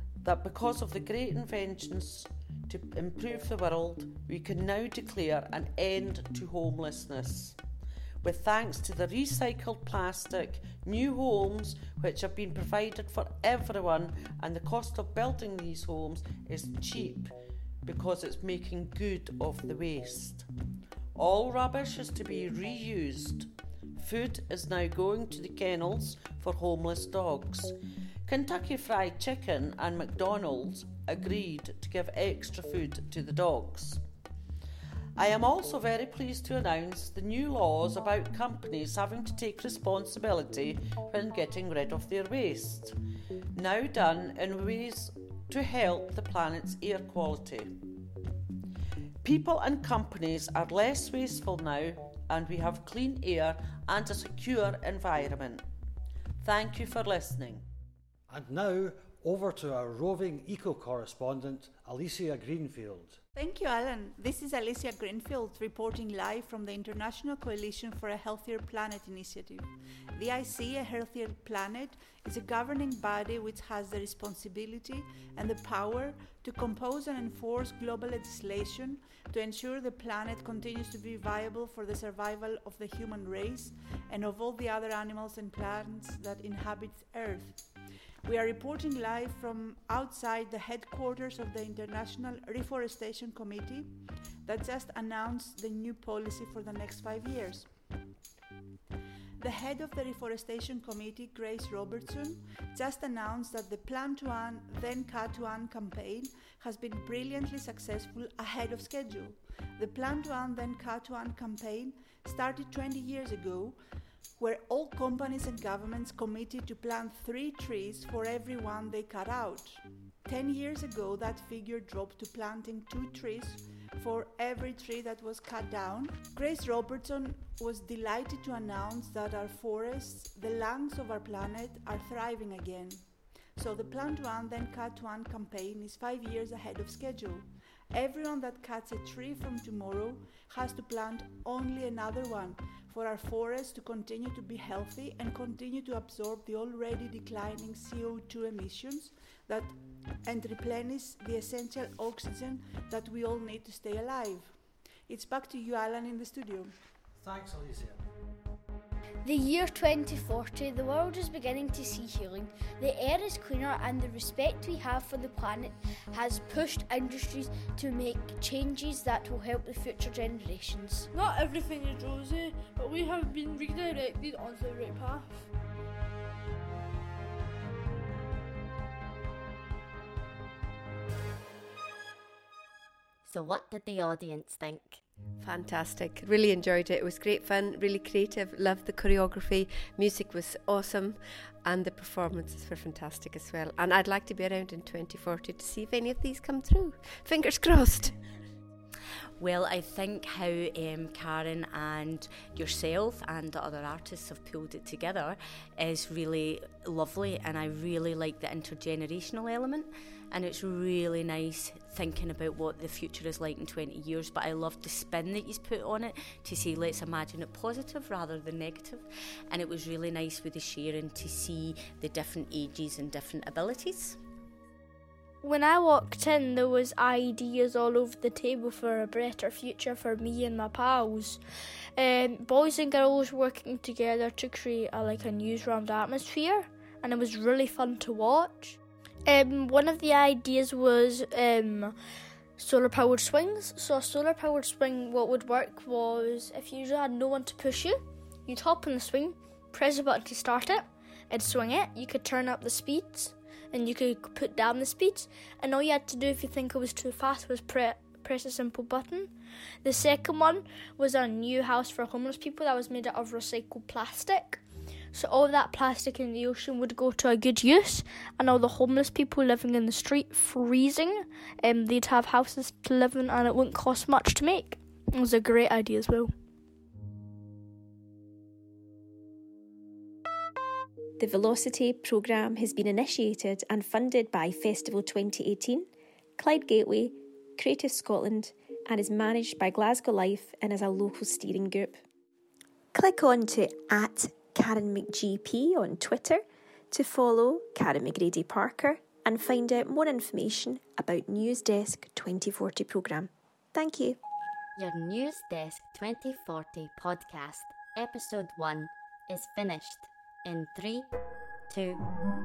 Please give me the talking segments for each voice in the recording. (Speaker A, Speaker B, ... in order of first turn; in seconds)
Speaker A: 0.2-7.5, 8.2-17.3, 17.9-20.4, 21.2-23.4, 24.0-27.7, 28.3-34.0, 35.2-42.9, 43.6-47.6, 49.2-55.6, 56.4-57.6
Speaker B: 58.3-63.2, 157.2-158.0
Speaker C: 63.3-87.6, 88.2-97.7, 99.4-113.8, 114.4-133.0, 133.5-154.5, 155.1-156.7
Speaker D: 159.2-171.1
Speaker E: 171.1-175.5
Speaker F: 183.3-185.0, 199.4-218.9, 219.5-224.1, 304.8-311.1, 311.7-312.0
Speaker G: 185.4-198.1
Speaker H: 225.4-231.4, 232.0-241.9, 242.6-259.3, 259.8-264.6, 265.1-276.3
Speaker I: 281.2-285.9, 286.4-292.0, 292.9-304.2